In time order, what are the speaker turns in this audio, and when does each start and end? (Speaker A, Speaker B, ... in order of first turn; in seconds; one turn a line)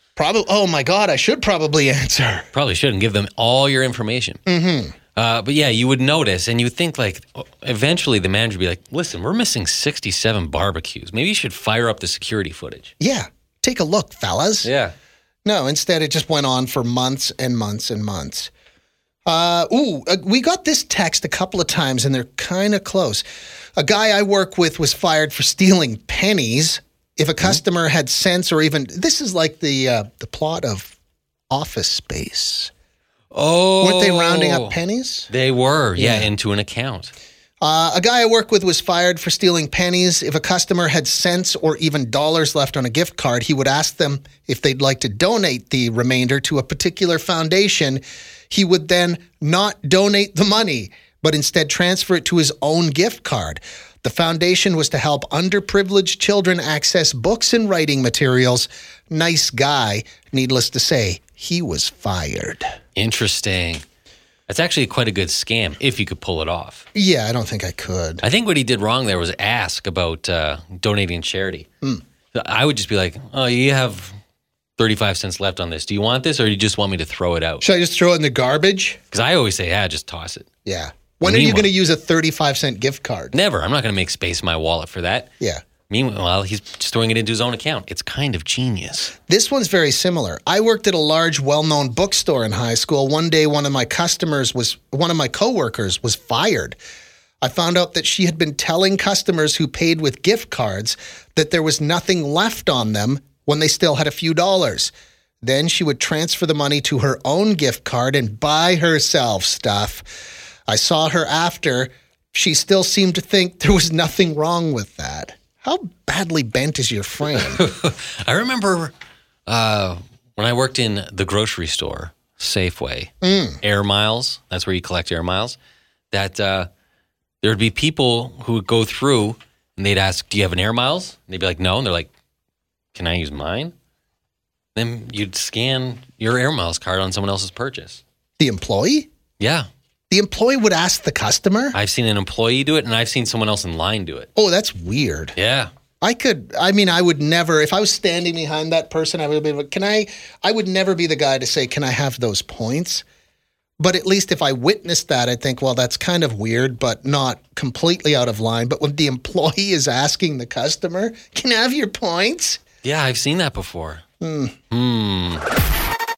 Speaker A: 0.2-2.5
Speaker B: 2.5-4.4
Speaker A: 4.5-4.9
Speaker B: 5.1-12.9
Speaker A: 13.0-14.7
Speaker B: 14.6-14.9
Speaker A: 15.4-18.5
Speaker A: 19.2-23.2
Speaker A: 23.8-30.9
Speaker A: 31.5-32.7
Speaker B: 33.3-34.8
Speaker A: 33.8-35.3
Speaker B: 35.3-37.1
Speaker A: 36.0-36.3
Speaker A: 37.6-62.7
Speaker B: 63.0-63.8
Speaker B: 64.5-66.8
Speaker A: 66.9-68.2
Speaker B: 68.2-71.7
Speaker B: 72.3-74.2
Speaker B: 74.8-77.6
Speaker A: 77.6-79.0
Speaker B: 79.1-80.5
Speaker A: 80.7-83.3
Speaker B: 81.2-81.7
Speaker B: 83.3-85.3
Speaker B: 85.9-89.1
Speaker A: 89.3-96.8
Speaker A: 97.4-110.1
Speaker A: 110.7-117.6
Speaker B: 117.3-118.9
Speaker B: 119.5-125.6
Speaker A: 123.2-123.6
Speaker B: 126.1-126.7
Speaker B: 127.4-132.1
Speaker B: 132.9-133.7
Speaker B: 134.7-138.0
Speaker A: 138.4-139.1
Speaker B: 139.4-139.7
Speaker A: 140.1-141.8
Speaker B: 141.7-144.3
Speaker A: 144.3-145.3
Speaker B: 145.3-145.7
Speaker A: 146.0-153.0
Speaker A: 153.8-162.6
Speaker B: 162.8-164.0
Speaker A: 164.2-164.5
Speaker B: 164.7-165.4